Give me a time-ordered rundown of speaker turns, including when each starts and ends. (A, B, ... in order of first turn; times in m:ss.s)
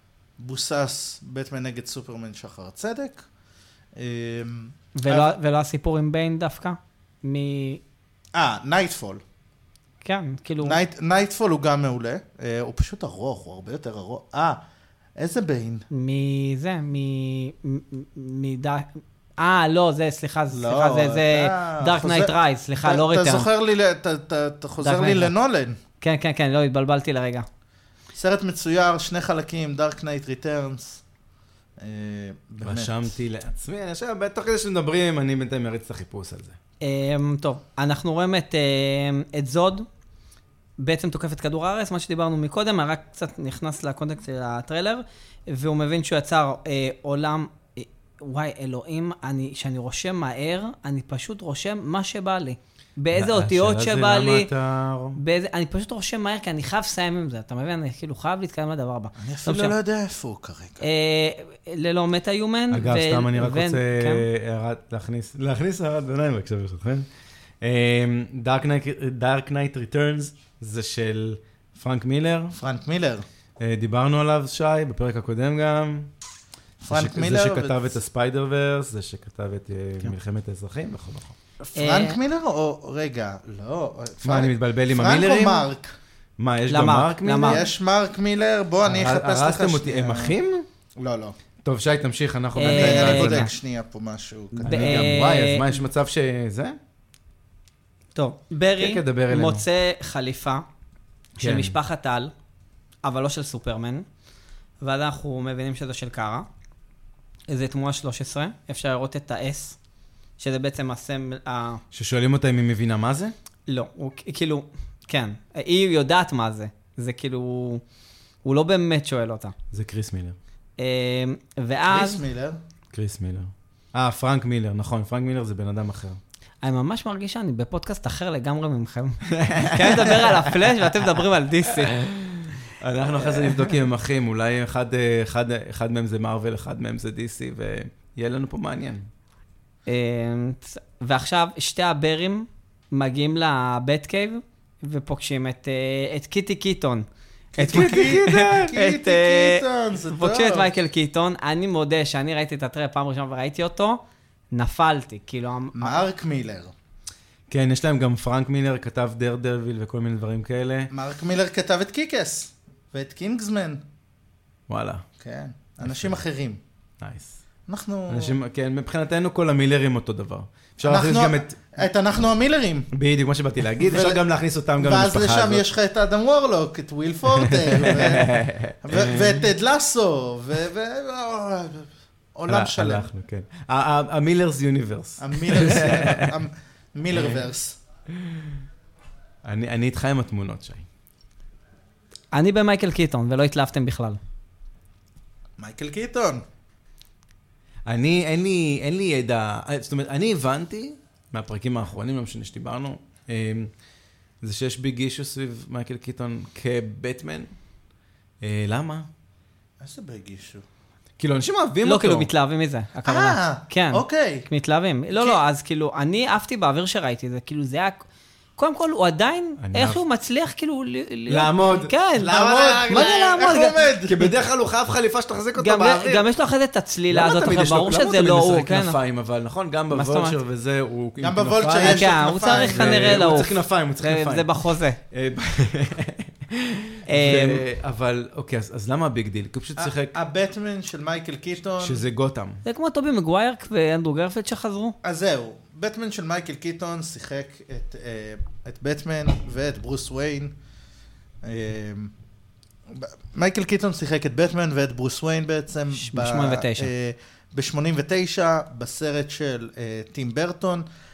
0:00.4-0:03.2 A
0:04.0-0:05.4 A
0:05.0-0:07.8 B
0:08.4-0:09.2 A
0:10.0-0:10.8 B
0:10.6-0:14.6 A
0:15.2-0:15.9 A
0:15.9-0:23.5 B
0:20.5-0:25.8 A
0:24.8-0:25.3 B
0:26.0-0:27.5 B
0:28.2-0:31.0 A
0:31.8-0:33.1 A
0:32.6-0:36.6 C
0:36.8-0:39.9 B
0:40.8-0:54.5 B
0:53.1-0:55.2 C
0:55.2-0:59.8 B
0:59.2-1:00.8 A
1:00.8-1:04.3 B
1:02.7-1:07.1 C
1:07.6-1:12.6 C
1:12.5-1:13.2 A
1:13.6-1:16.1 C
1:16.8-1:18.0 A
1:16.9-1:21.4 C
1:21.6-1:26.0 A
1:21.8-1:22.2 B
1:24.2-1:25.7 C
1:26.4-1:27.6 C
1:26.7-1:27.6 B
1:27.4-1:30.4 A
1:28.8-1:30.6 C
1:31.0-1:31.4 A
1:31.6-1:33.5 C
1:32.6-1:33.5 B
1:32.6-1:35.2 A
1:34.6-1:36.8 C
1:34.6-1:35.7 B
1:38.2-1:40.6 B
1:38.8-1:39.6 C
1:41.4-1:42.3 B
1:41.4-1:41.8 C
1:43.0-1:44.1 B
1:44.8-1:46.5 B
1:47.5-1:49.8 B
1:50.4-1:51.8 B
1:51.9-1:53.3 C
1:53.7-1:57.8 B
1:58.4-1:59.6 B
1:59.7-2:00.4 C
2:00.8-2:02.2 B
2:01.9-2:02.6 A
2:02.9-2:06.2 C
2:06.6-2:12.0 B
2:09.3-2:10.7 C
2:11.7-2:19.0 C
2:13.3-2:13.7 B
2:19.9-2:27.1 B
2:27.5-2:30.7 A
2:27.6-2:34.0 B
2:27.6-2:28.8 C
2:34.5-2:36.0 B
2:35.8-2:36.7 A
2:37.5-2:40.9 C
2:40.9-2:43.8 A
2:44.7-2:45.0 C
2:45.2-2:46.6 A
2:45.8-2:46.2 C
2:47.0-2:47.4 C
2:47.7-2:48.4 A
2:48.1-2:51.7 C
2:50.8-2:52.9 A
2:52.9-2:55.6 C
2:53.8-2:54.2 A
2:54.8-3:03.1 A
2:57.4-2:59.5 C
3:02.5-3:06.4 C
3:05.2-3:07.8 A
3:07.1-3:07.4 C
3:08.1-3:08.6 C
3:09.4-3:10.8 C
3:12.3-3:14.2 B
3:15.6-3:16.4 A
3:17.9-3:23.7 C
3:24.4-3:27.5 C
3:28.4-3:29.1 C
3:29.8-3:30.6 A
3:31.2-3:32.3 C
3:31.8-3:38.0 B
3:33.0-3:34.5 A
3:35.1-3:35.4 A
3:38.6-3:43.8 B
3:39.6-3:40.0 C
3:41.3-3:43.2 C
3:42.2-3:44.3 A
3:44.0-3:46.3 C
3:45.6-3:49.0 B
3:47.1-4:00.2 C
3:49.9-3:50.4 B
3:51.2-3:53.5 A
3:51.8-3:55.0 B
3:57.1-3:57.6 B
3:59.8-4:02.0 A
4:01.8-4:02.6 C
4:02.6-4:05.0 B
4:05.0-4:10.6 A
4:11.4-4:12.1 A
4:12.9-4:20.8 A
4:15.9-4:16.9 B